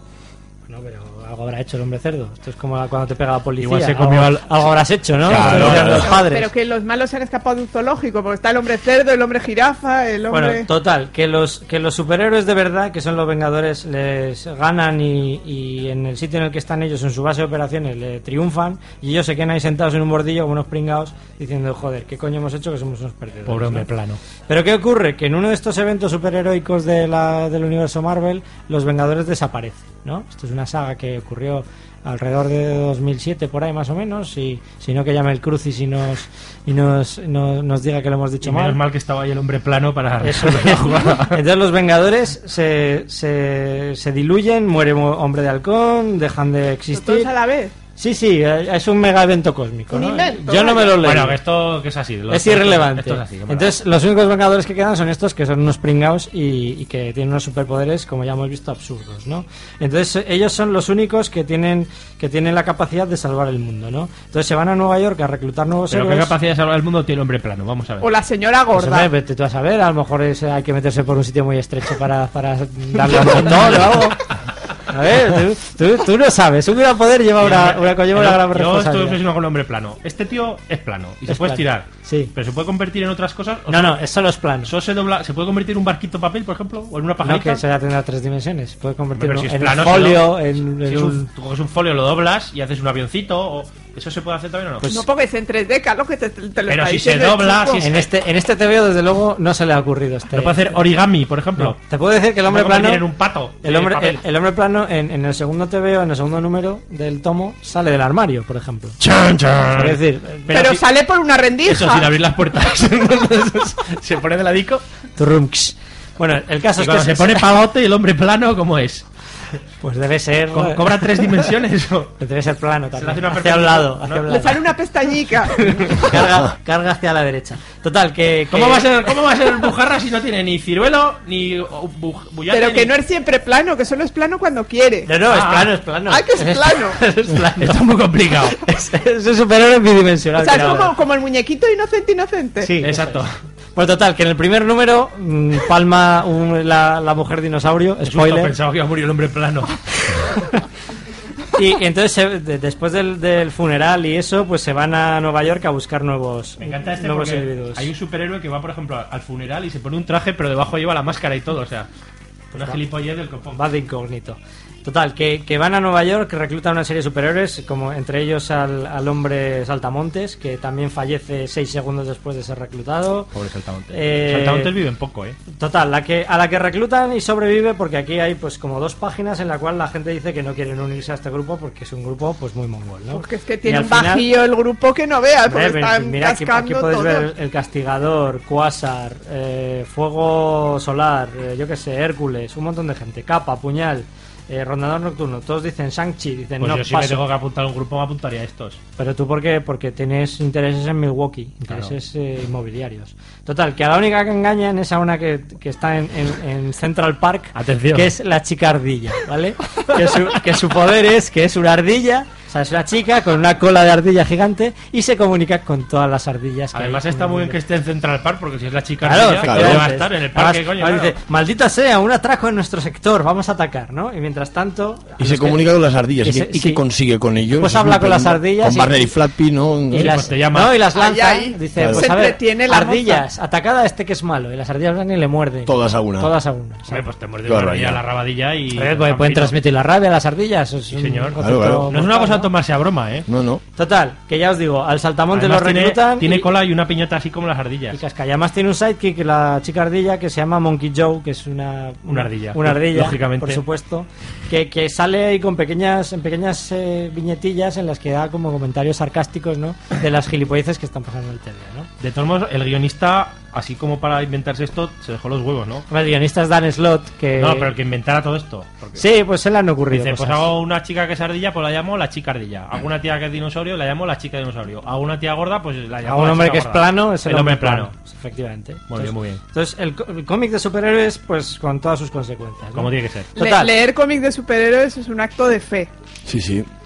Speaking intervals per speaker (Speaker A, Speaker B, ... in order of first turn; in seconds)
Speaker A: 0.7-6.5, 10.3-23.9, 24.5-38.8, 40.2-47.3, 48.0-51.4, 52.3-66.3, 68.7-74.2, 74.9-79.2, 81.3-82.3, 83.7-84.7, 87.2-91.3, 94.8-95.0, 97.8-100.8, 101.6-103.0, 103.6-109.0, 109.7-110.8, 115.2-117.5, 119.8-121.2, 122.2-124.6, 125.6-128.9, 135.1-137.8, 138.5-140.9, 142.6-143.2, 143.7-148.5, 151.5-157.9, 162.5-162.8, 163.5-173.3, 173.9-174.7, 175.5-184.3, 185.5-197.2, 199.0-217.6, 219.0-225.6, 226.2-226.8, 227.6-229.1, 229.9-237.0, 238.7-242.5, 243.8-246.5, 247.9-261.9, 265.9-267.7, 269.0-270.5, 276.1-283.7
Speaker B: 3.6-4.6, 5.2-6.1, 23.4-24.2, 38.4-41.4, 50.9-53.8, 65.9-68.1, 73.0-74.1, 77.4-84.0, 84.6-87.6, 89.1-94.9, 96.7-98.1, 100.3-101.8, 102.5-104.2, 109.0-110.8, 111.7-114.8, 116.8-119.0, 120.5-122.1, 123.0-124.4, 128.5-132.9, 135.3-135.7, 137.6-138.6, 142.8-143.3, 148.0-150.3, 156.6-161.9, 162.5-163.6, 173.3-175.4, 196.6-198.8, 201.7-201.9, 207.5-208.1, 216.7-221.1, 229.9-230.8, 236.9-239.6, 240.9-243.3, 245.3-248.0, 252.1-253.6, 262.0-265.9, 267.4-269.0, 269.9-277.9, 278.9-279.4, 282.7-283.3
Speaker C: 5.3-6.1, 219.4-219.9, 225.2-230.2, 231.8-232.0, 235.7-236.3, 237.4-238.0, 241.4-241.9, 243.3-243.6, 286.2-286.7
Speaker D: 5.7-10.7, 46.9-47.7, 49.9-50.9, 68.0-69.1, 94.9-97.8, 110.5-112.1, 124.3-126.1, 132.5-135.1, 136.1-137.0, 140.4-142.7, 183.1-187.3, 230.9-233.2, 283.4-285.9